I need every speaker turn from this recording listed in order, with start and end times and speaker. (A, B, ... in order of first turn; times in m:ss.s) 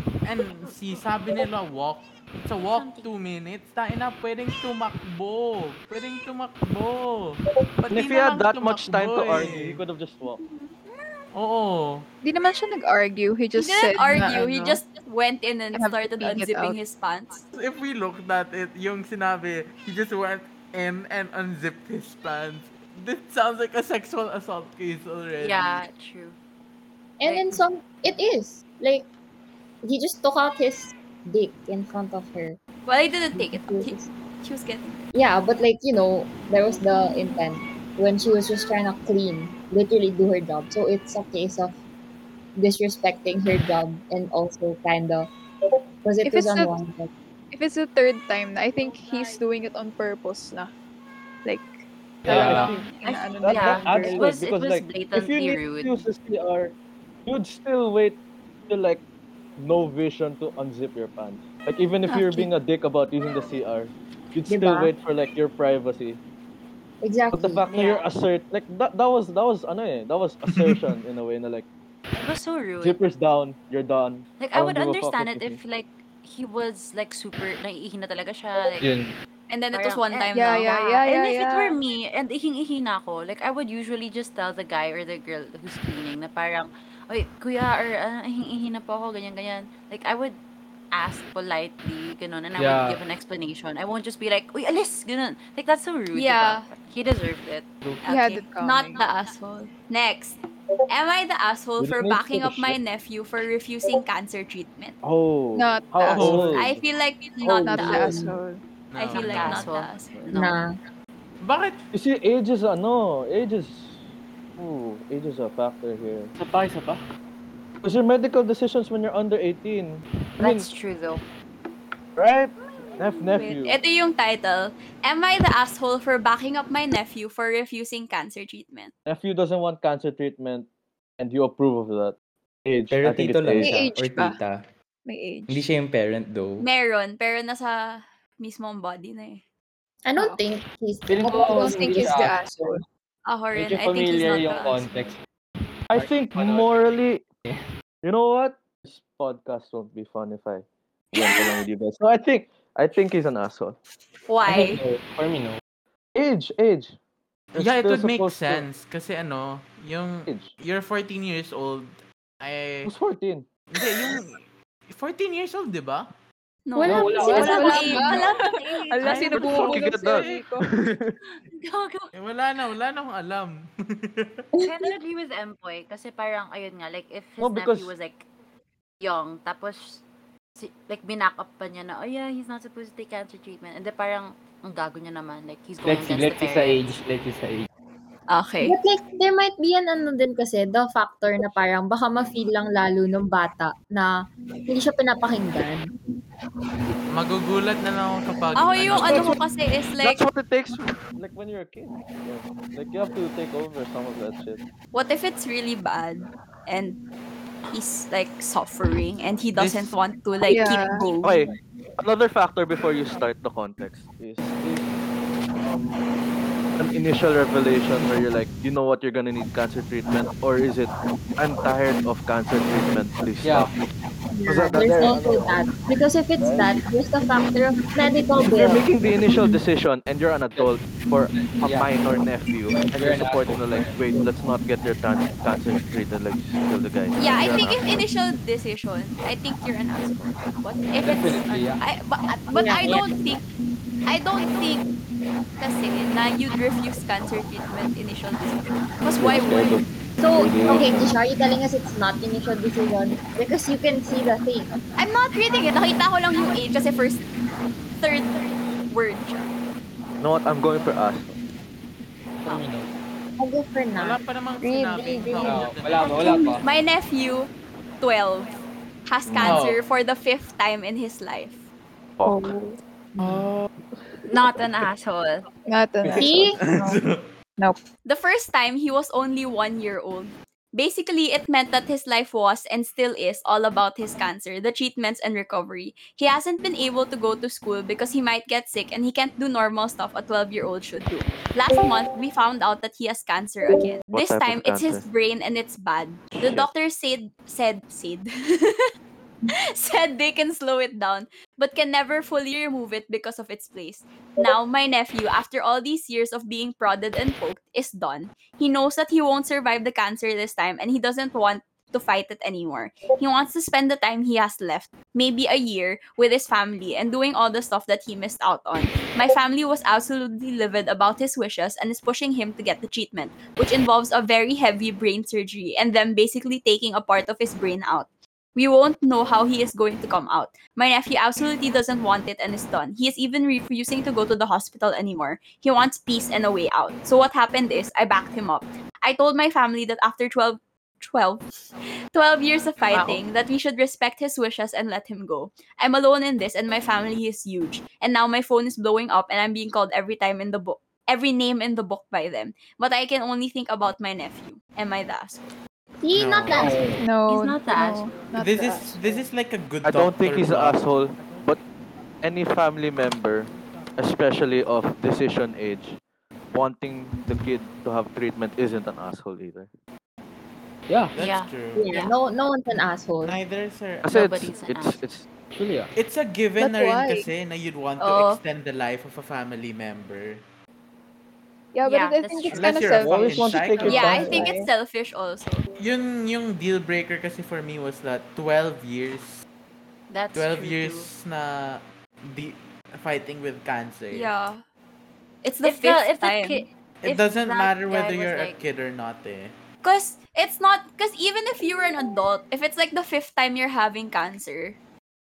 0:00.2-0:09.8 A
0:02.6-0:03.1 B
0:07.9-0:10.4 C
0:11.3-0:12.1 A
0:12.2-0:14.8 D
0:13.6-0:17.5 E
0:15.7-0:16.8 D
0:17.5-0:25.9 A
0:25.4-0:26.4 B
0:27.2-0:29.1 F
0:27.2-0:27.6 B
0:29.8-0:32.6 F
0:32.9-0:35.0 E
0:33.3-0:34.1 F
0:35.1-0:41.8 F
0:42.6-0:45.3 F
0:46.0-0:47.1 F
0:46.2-0:46.8 D
0:47.5-0:50.7 D
0:51.4-0:54.3 D
0:52.2-0:56.8 C
0:52.3-0:52.7 G
0:53.0-0:56.0 B
0:57.3-0:59.0 C
0:59.6-1:06.2 C
1:04.5-1:04.9 F
1:07.0-1:07.6 F
1:07.3-1:11.7 C
1:07.7-1:08.1 B
1:12.2-1:13.0 B
1:12.8-1:15.6 C
1:14.4-1:18.9 B
1:18.8-1:19.2 G
1:19.5-1:21.0 E
1:19.7-1:20.4 B
1:20.3-1:21.8 D
1:21.0-1:30.4 B
1:30.9-1:37.7 B
1:32.6-1:33.0 G
1:36.1-1:36.7 E
1:38.0-1:40.4 E
1:38.1-1:39.1 D
1:40.9-1:45.0 E
1:41.8-1:42.8 C
1:45.0-1:46.8 C
1:45.6-1:46.5 D
1:46.2-1:46.6 A
1:46.5-1:48.2 E
1:47.4-1:48.6 D
1:47.4-1:47.9 C
1:47.7-1:48.4 F
1:48.9-1:49.7 A
1:49.0-1:50.3 E
1:49.1-1:50.6 B
1:50.3-1:50.7 F
1:51.4-1:51.9 A
1:51.9-1:54.0 C
1:54.6-1:56.3 C
1:56.4-1:57.0 G
1:57.8-2:00.7 C
2:00.4-2:01.2 B
2:02.2-2:03.8 C
2:02.8-2:08.9 E
2:09.1-2:10.7 C
2:11.2-2:12.2 C
2:12.7-2:13.8 C
2:12.9-2:14.6 H
2:13.6-2:14.4 D
2:15.1-2:15.7 D
2:15.5-2:16.7 H
2:16.6-2:19.4 E
2:20.0-2:22.4 F
2:21.1-2:22.7 G
2:21.3-2:22.8 D
2:23.3-2:25.0 E
2:23.5-2:25.2 G
2:25.9-2:27.2 C
2:25.9-2:26.8 G
2:28.0-2:33.8 C
2:31.2-2:31.5 E
2:34.3-2:34.8 E
2:34.5-2:35.6 G
2:36.2-2:37.0 C
2:37.6-2:42.9 A
2:37.6-2:38.7 C
2:40.3-2:40.5 C
2:42.8-2:43.5 C
2:43.7-2:46.1 A
2:46.7-2:49.5 E
2:46.8-2:48.0 F
2:46.8-2:48.0 G
2:47.1-2:50.7 D
2:48.0-2:48.3 A
2:49.0-2:50.4 A
2:49.3-2:51.2 C
2:51.6-2:52.1 B
2:52.1-2:54.5 A
2:54.6-2:58.3 B
2:57.4-2:57.9 C
2:59.0-3:00.0 B
3:00.6-3:07.0 B
3:05.8-3:07.7 G
3:08.3-3:08.8 E
3:08.6-3:14.1 F
3:14.7-3:15.9 F
3:17.1-3:19.3 A
3:18.6-3:20.2 E
3:18.9-3:19.4 C
3:20.0-3:24.6 C
3:24.9-3:27.0 E
3:27.7-3:31.4 E
3:29.6-3:29.9 A
3:30.5-3:31.1 D
3:31.2-3:34.9 C
3:35.6-3:36.0 C
3:36.8-3:43.7 C
3:43.4-3:43.7 G
3:44.3-3:48.8 F
3:44.5-3:45.6 C
3:46.4-3:46.8 C
3:48.4-3:57.8 C
3:51.3-3:51.9 G
3:52.8-3:54.3 G
3:57.2-4:03.4 E
4:01.0-4:01.8 G
4:02.5-4:03.0 F
4:04.1-4:04.8 E
4:05.6-4:09.9 E
4:09.2-4:11.1 C
4:10.2-4:14.7 F
4:15.0-4:17.3 E
4:18.0-4:19.5 E
4:20.2-4:21.4 C
4:22.4-4:22.9 G
4:23.4-4:25.7 F
4:24.0-4:26.7 A
4:25.4-4:26.6 G
4:26.1-4:31.6 E
4:29.3-4:29.6 C
4:29.4-4:29.8 A
4:32.2-4:32.6 C
4:32.2-4:33.5 D
4:33.2-4:33.6 A
4:34.3-4:35.5 B
4:35.7-4:37.0 D
4:36.0-4:36.5 C
4:36.2-4:36.5 F
4:36.6-4:37.3 A
4:38.0-4:58.9 E
4:54.1-4:55.0 C
4:56.3-4:56.7 C
4:59.5-5:41.5 E
5:42.1-5:55.5 E
5:42.9-5:43.2 B
5:56.0-5:56.9 F
5:56.1-5:56.8 A
5:56.6-5:57.0 C
5:57.0-5:59.0 D
5:57.3-5:58.3 B
5:58.4-6:01.4 A
5:59.8-6:01.6 C
6:02.2-6:06.0 C
6:06.5-6:09.7 C
6:10.9-6:11.1 G
6:11.1-6:11.9 A
6:11.2-6:12.1 B
6:11.8-6:13.4 F
6:13.2-6:14.2 A
6:14.0-6:15.3 C
6:14.1-6:15.0 B
6:15.5-6:15.9 G
6:16.0-6:20.4 A
6:16.6-6:17.3 D
6:18.0-6:18.4 E
6:21.7-6:24.7 D
6:21.8-6:24.1 B
6:22.5-6:24.3 A
6:23.0-6:24.5 C
6:23.8-6:25.6 E
6:25.8-6:29.4 A
6:30.1-6:31.1 B
6:30.3-6:34.3 A
6:34.1-6:34.6 E
6:35.4-6:36.7 E
6:35.6-6:38.6 B
6:37.0-6:39.5 A
6:39.8-6:44.8 E